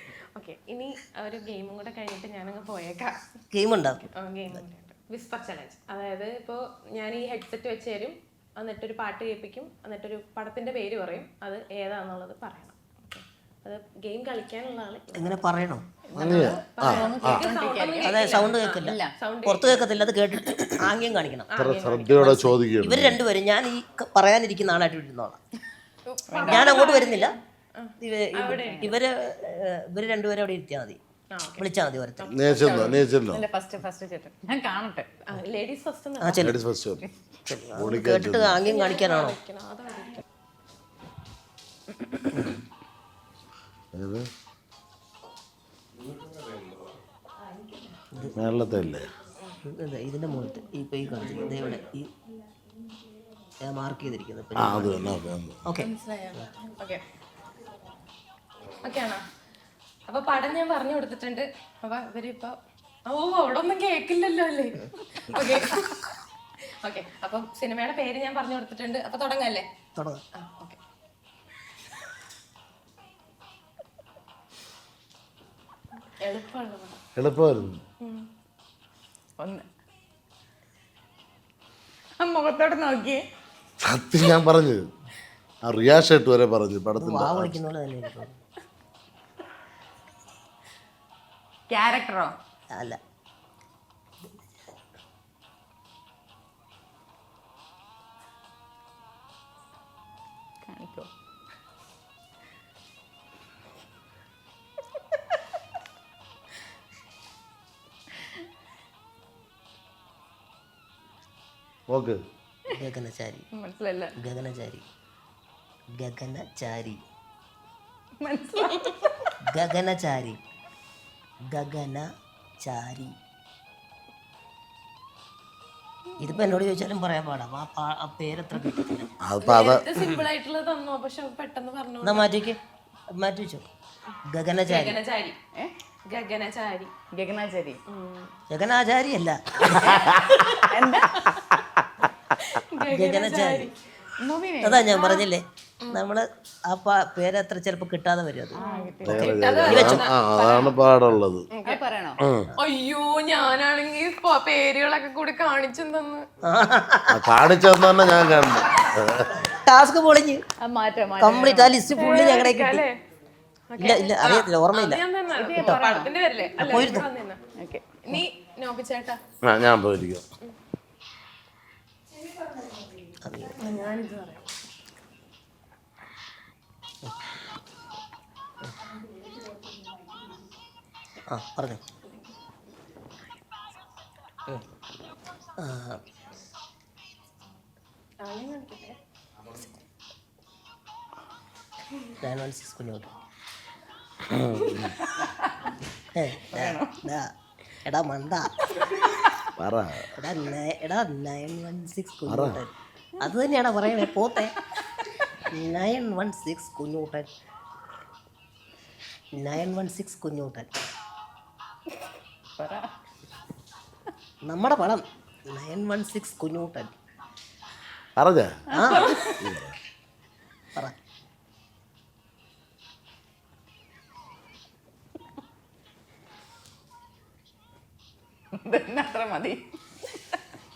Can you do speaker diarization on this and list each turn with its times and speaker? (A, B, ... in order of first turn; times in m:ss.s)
0:00.3-0:03.3 A
0:03.5-0:04.1 B
0:04.2-0:15.4 A
0:15.1-0:15.8 B
0:16.1-0:19.1 C
0:16.2-0:17.5 D
0:16.2-0:19.8 A
0:18.0-0:21.5 B
0:21.5-0:22.6 A
0:21.6-0:23.2 D
0:22.8-0:25.4 B
0:26.0-0:29.0 A
0:26.3-0:27.0 C
0:26.4-0:27.3 B
0:28.0-0:32.3 B
0:28.6-0:28.9 C
0:31.3-0:31.6 A
0:32.2-0:33.0 A
0:32.3-0:33.4 D
0:33.3-0:35.2 C
0:35.3-0:36.5 A
0:36.2-0:36.6 B
0:36.4-0:37.0 D
0:37.5-0:39.4 B
0:37.7-0:38.6 D
0:38.6-0:40.2 A
0:43.9-0:44.3 D
0:48.3-0:49.1 D
0:49.6-0:52.1 B
0:53.6-0:55.9 B
0:54.6-0:55.6 D
0:55.8-0:57.0 A
0:58.8-0:59.2 A
1:00.1-1:06.1 A
1:06.8-1:09.6 A
1:10.0-1:10.2 B
1:10.4-1:10.8 A
1:16.2-1:17.0 A
1:17.2-1:17.8 D
1:19.4-1:19.7 C
1:22.2-1:23.2 C
1:23.8-1:24.8 D
1:25.6-1:27.6 D
1:27.0-1:28.4 B
1:31.7-1:32.3 C
1:32.7-1:33.0 B
1:40.6-1:41.1 C
1:51.9-1:52.2 D
1:52.7-1:53.4 B
1:53.6-1:54.1 C
1:54.2-1:54.8 B
1:56.0-1:57.0 B
1:58.2-1:59.3 C
1:59.4-2:00.4 B
2:01.5-2:02.0 B
2:02.6-2:03.1 B
2:06.2-2:09.1 B
2:09.2-2:09.8 D
2:09.4-2:12.3 A
2:12.0-2:12.6 B
2:13.2-2:13.6 B
2:14.1-2:15.4 A
2:14.3-2:15.0 B
2:16.0-2:16.9 A
2:17.1-2:17.8 C
2:17.9-2:18.4 A
2:18.5-2:20.2 B
2:19.8-2:20.3 D
2:20.3-2:20.7 A
2:20.6-2:21.3 C
2:22.4-2:23.8 A
2:22.9-2:23.7 B
2:24.2-2:24.9 C
2:24.6-2:28.6 B
2:24.9-2:25.3 A
2:28.5-2:29.7 C
2:28.6-2:30.7 A
2:29.0-2:31.5 D
2:29.7-2:30.0 B
2:31.5-2:31.8 A
2:31.6-2:32.2 C
2:32.2-2:32.5 D
2:32.6-2:36.2 A
2:36.4-2:37.2 B
2:37.1-2:39.3 D
2:39.4-2:40.4 B
2:40.6-2:41.8 C
2:41.2-2:42.8 B
2:42.0-2:42.9 A
2:43.7-2:47.4 A
2:43.8-2:45.0 B
2:45.3-2:46.1 C
2:46.6-2:47.1 B
2:47.6-2:47.9 C
2:48.0-2:49.2 A
2:49.4-2:50.2 D
2:53.2-2:53.8 B
2:53.6-2:54.5 A
3:01.3-3:01.8 B
3:05.6-3:06.0 B
3:08.2-3:09.0 A
3:12.2-3:13.1 B
3:14.3-3:14.9 D
3:15.0-3:15.5 C
3:16.1-3:17.3 B
3:16.5-3:17.0 C
3:17.8-3:18.7 B
3:19.6-3:20.1 D
3:20.1-3:24.6 B
3:22.3-3:22.6 D
3:25.5-3:27.3 B
3:29.4-3:30.7 B
3:32.6-3:32.9 C
3:34.4-3:37.0 B
3:38.2-3:38.6 D
3:38.7-3:39.4 C
3:38.7-3:39.1 B
3:39.3-3:39.8 D
3:48.5-3:49.6 C